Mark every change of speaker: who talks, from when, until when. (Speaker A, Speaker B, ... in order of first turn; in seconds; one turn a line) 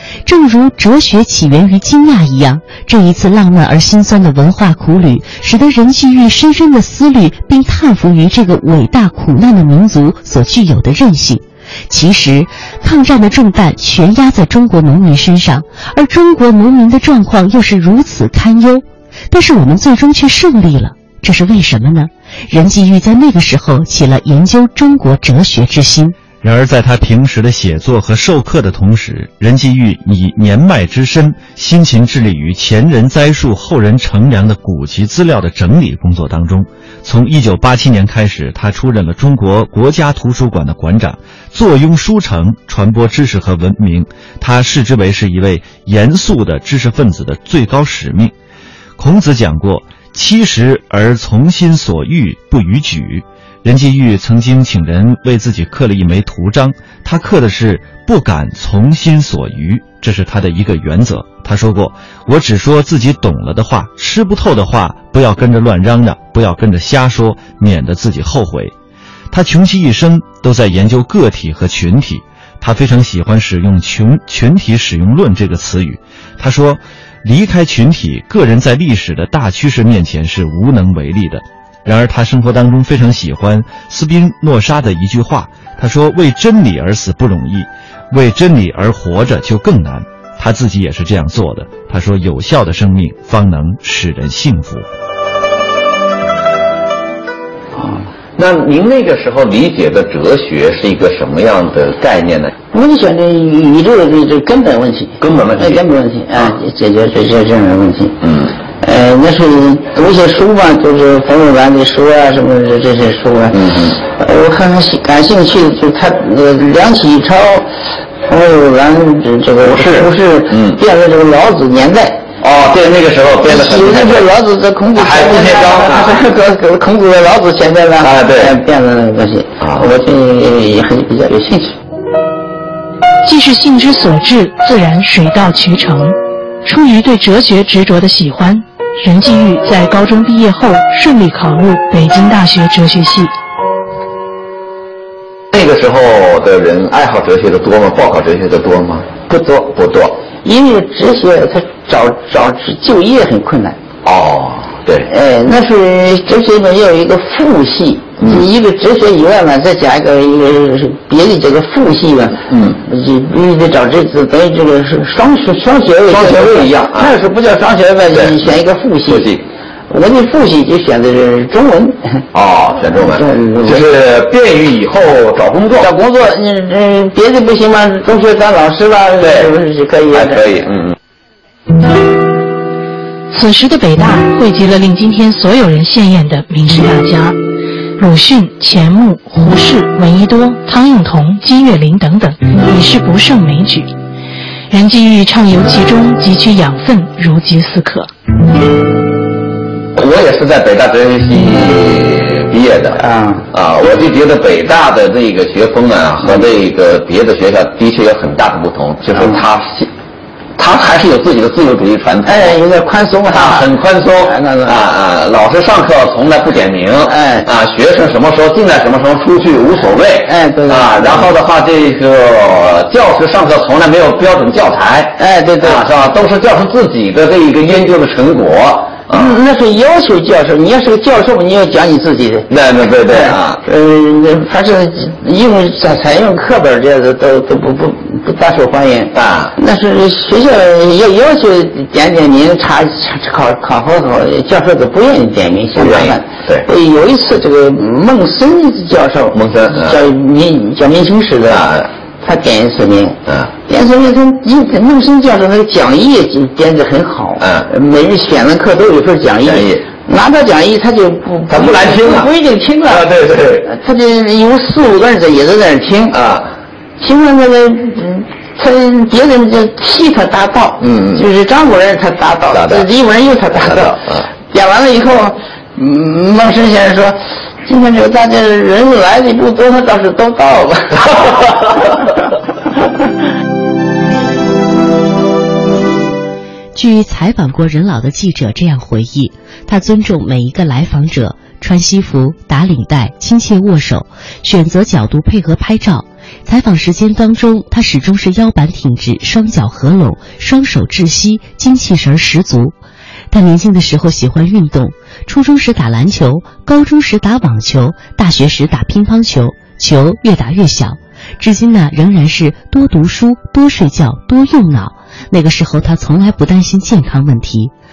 Speaker A: 0.3-26.2
Speaker B: 26.4-48.3
Speaker B: 49.0-68.7
Speaker B: 69.3-94.9
Speaker C: 97.8-102.5
Speaker D: 102.7-117.7
Speaker C: 105.2-105.8
Speaker C: 113.5-114.0
Speaker D: 118.3-122.3
Speaker C: 119.6-120.8
Speaker C: 122.4-124.3
Speaker D: 123.5-131.7
Speaker C: 124.9-126.3
Speaker C: 128.0-128.6
Speaker C: 129.6-129.9
Speaker E: 133.2-143.3
Speaker C: 145.5-150.2
Speaker D: 150.4-153.8
Speaker C: 154.0-155.1
Speaker D: 155.1-169.3
Speaker C: 162.5-162.8
Speaker C: 166.1-167.2
Speaker C: 168.1-168.5
Speaker C: 169.1-169.4
Speaker D: 169.9-172.2
Speaker C: 172.3-175.9
Speaker D: 172.9-173.9
Speaker D: 175.8-180.5
Speaker C: 179.2-179.6
Speaker C: 180.1-181.0
Speaker E: 183.3-187.4
Speaker E: 188.0-193.9
Speaker E: 194.7-198.1
Speaker C: 200.0-203.0
Speaker D: 203.0-203.5
Speaker C: 203.5-209.9
Speaker C: 210.6-212.6
Speaker D: 212.3-214.8
Speaker C: 213.3-229.4
Speaker D: 217.1-217.5
Speaker D: 220.2-221.3
Speaker D: 225.2-225.9
Speaker D: 229.1-232.5
Speaker C: 232.5-233.6
Speaker D: 233.1-263.1
Speaker C: 239.1-239.6
Speaker C: 245.8-246.7
Speaker C: 249.3-250.0
Speaker C: 251.5-251.9
Speaker C: 257.4-257.7
Speaker C: 259.4-259.9
Speaker C: 261.5-262.3
Speaker C: 262.9-263.7
Speaker D: 263.6-266.2
Speaker C: 266.1-266.5
Speaker D: 267.0-281.7
Speaker C: 270.8-271.3
Speaker C: 272.5-272.9
Speaker C: 273.6-274.3
Speaker A: 286.7-302.8
Speaker A: 303.3-317.7